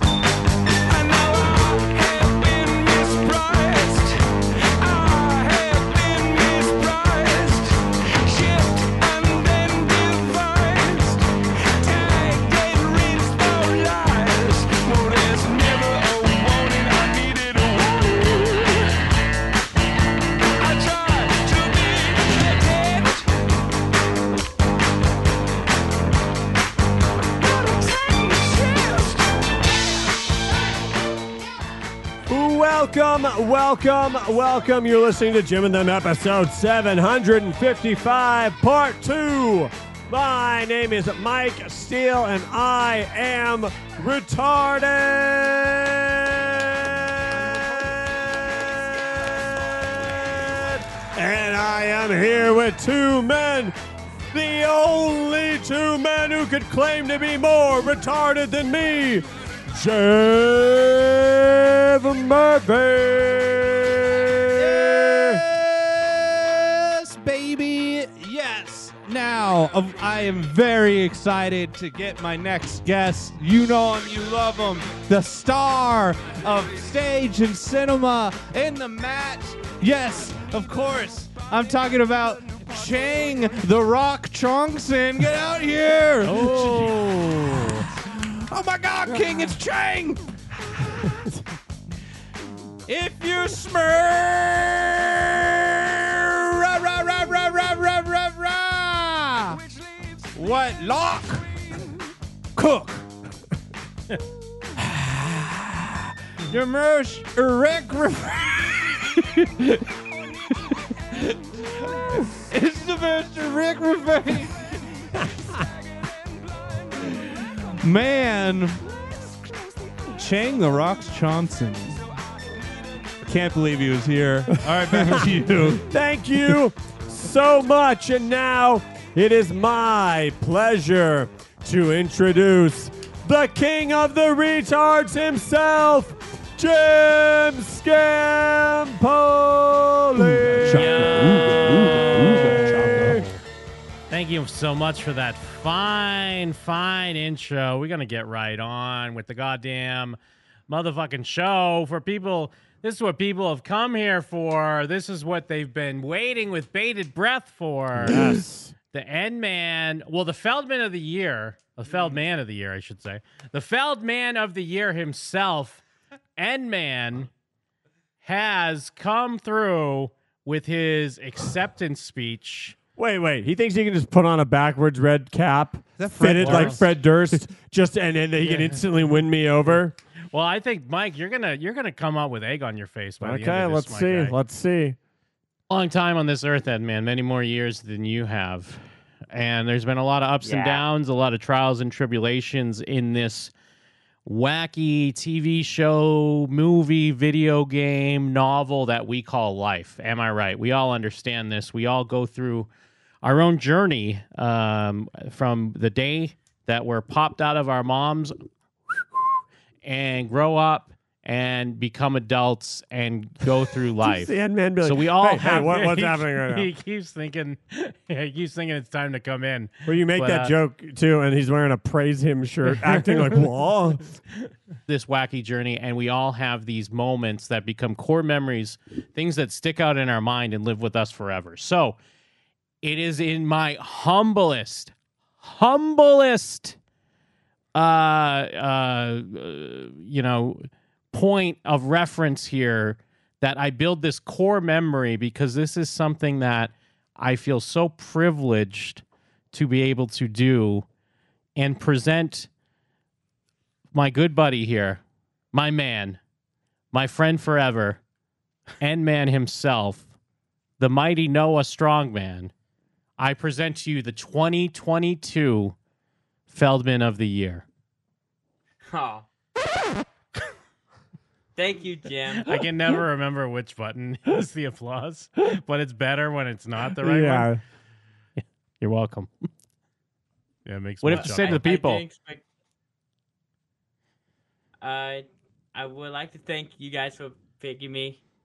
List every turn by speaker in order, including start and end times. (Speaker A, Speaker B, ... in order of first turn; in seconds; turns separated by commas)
Speaker A: 0.9-18.9, Speaker A: 20.6-23.3, Speaker A: 27.4-29.3, Speaker B: 32.3-53.8, Speaker B: 54.3-65.4, Speaker C: 64.6-90.3, Speaker A: 82.0-83.6, Speaker D: 86.2-87.8, Speaker C: 92.9-99.6, Speaker A: 99.5-100.6, Speaker C: 100.3-101.5, Speaker C: 102.6-103.1, Speaker C: 104.8-109.8, Speaker C: 112.3-115.2, Speaker A: 115.6-117.2, Speaker C: 117.8-118.8, Speaker A: 118.8-121.0, Speaker C: 120.1-122.1, Speaker A: 122.3-123.2, Speaker C: 123.2-125.9, Speaker B: 125.8-140.9, Speaker C: 140.3-143.2, Speaker D: 140.6-143.4, Speaker B: 141.7-143.2, Speaker D: 144.1-158.3, Speaker B: 157.9-158.7, Speaker D: 158.9-165.8, Speaker D: 166.4-167.3, Speaker D: 168.2-172.8, Speaker B: 173.0-179.9, Speaker C: 176.0-176.8, Speaker D: 176.4-176.8, Speaker D: 178.4-179.0, Speaker D: 180.3-184.3, Speaker B: 183.2-185.0, Speaker D: 185.7-193.5, Speaker E: 190.4-190.8, Speaker D: 194.2-202.7, Speaker D: 203.2-208.3, Speaker D: 208.9-209.3, Speaker D: 209.8-220.5, Speaker B: 214.0-216.7, Speaker B: 219.9-224.1, Speaker D: 222.7-223.4, Speaker D: 224.9-232.0, Speaker D: 232.8-236.8, Speaker D: 237.8-250.9, Speaker D: 251.6-252.5, Speaker D: 253.9-255.0, Speaker D: 255.5-256.2, Speaker D: 256.9-258.0, Speaker D: 258.8-260.1, Speaker D: 260.8-262.5, Speaker D: 263.2-265.8, Speaker D: 266.5-267.6, Speaker E: 268.9-269.3, Speaker E: 271.6-272.6, Speaker D: 272.4-277.6, Speaker B: 277.0-277.6, Speaker D: 278.4-279.3, Speaker D: 280.7-282.0, Speaker E: 281.0-282.4, Speaker C: 281.1-281.6, Speaker E: 284.8-288.2